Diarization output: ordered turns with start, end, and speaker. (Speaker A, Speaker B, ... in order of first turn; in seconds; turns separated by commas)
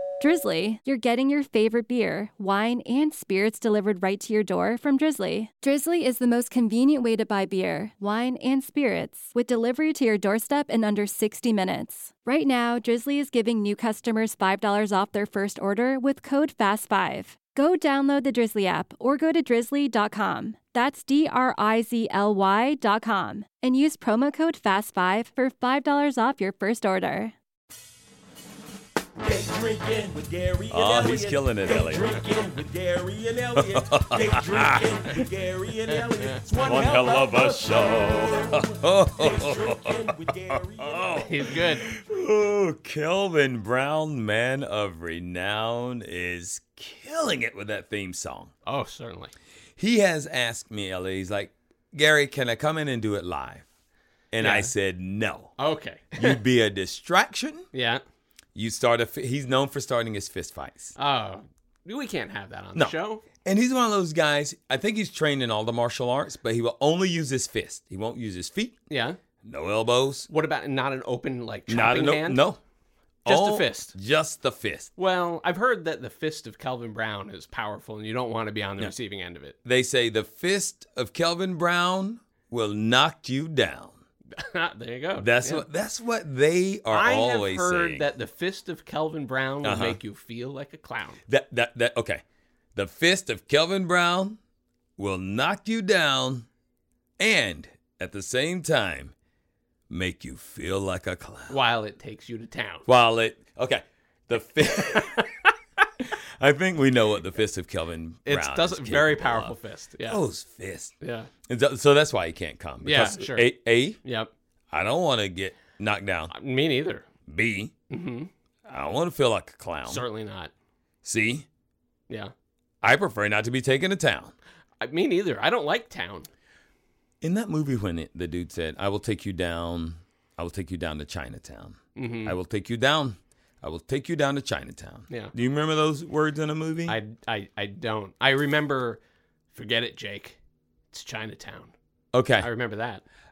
Speaker A: 0.2-27.4, Speaker B: 29.2-41.5, Speaker C: 30.7-32.2, Speaker C: 33.6-34.9, Speaker C: 36.6-48.5, Speaker D: 41.2-41.9, Speaker D: 48.7-49.3, Speaker C: 49.8-53.7, Speaker C: 54.3-55.5, Speaker D: 54.4-54.7, Speaker D: 55.6-56.4, Speaker C: 56.2-57.7, Speaker D: 57.7-58.0, Speaker C: 58.5-61.0, Speaker D: 61.0-63.2, Speaker C: 62.8-68.8, Speaker D: 68.9-69.2, Speaker C: 69.4-70.3, Speaker D: 70.3-72.4, Speaker C: 71.7-72.6, Speaker D: 73.2-73.9, Speaker C: 73.3-74.9, Speaker D: 75.0-79.6, Speaker C: 79.7-84.0, Speaker D: 84.3-85.7, Speaker C: 85.2-88.0, Speaker D: 86.9-91.2, Speaker C: 89.6-90.0, Speaker C: 91.3-92.2, Speaker C: 92.8-94.4, Speaker C: 95.0-96.5, Speaker C: 97.2-99.1, Speaker C: 99.9-101.6, Speaker D: 101.5-102.9, Speaker C: 102.9-105.3, Speaker D: 104.8-105.5, Speaker C: 106.0-110.9, Speaker D: 108.3-110.2, Speaker D: 111.0-111.3, Speaker C: 111.5-114.0, Speaker D: 112.8-113.5, Speaker D: 114.0-114.3, Speaker C: 114.7-116.3, Speaker D: 116.3-117.1, Speaker C: 117.3-117.7, Speaker D: 117.9-118.3, Speaker C: 118.7-120.0, Speaker D: 119.8-120.5, Speaker C: 121.0-121.5, Speaker C: 122.8-124.3, Speaker D: 124.8-126.3, Speaker C: 127.2-137.0, Speaker D: 131.9-132.4, Speaker D: 136.9-139.0, Speaker D: 139.5-140.4, Speaker D: 140.9-141.7, Speaker C: 142.1-142.5, Speaker D: 142.4-143.0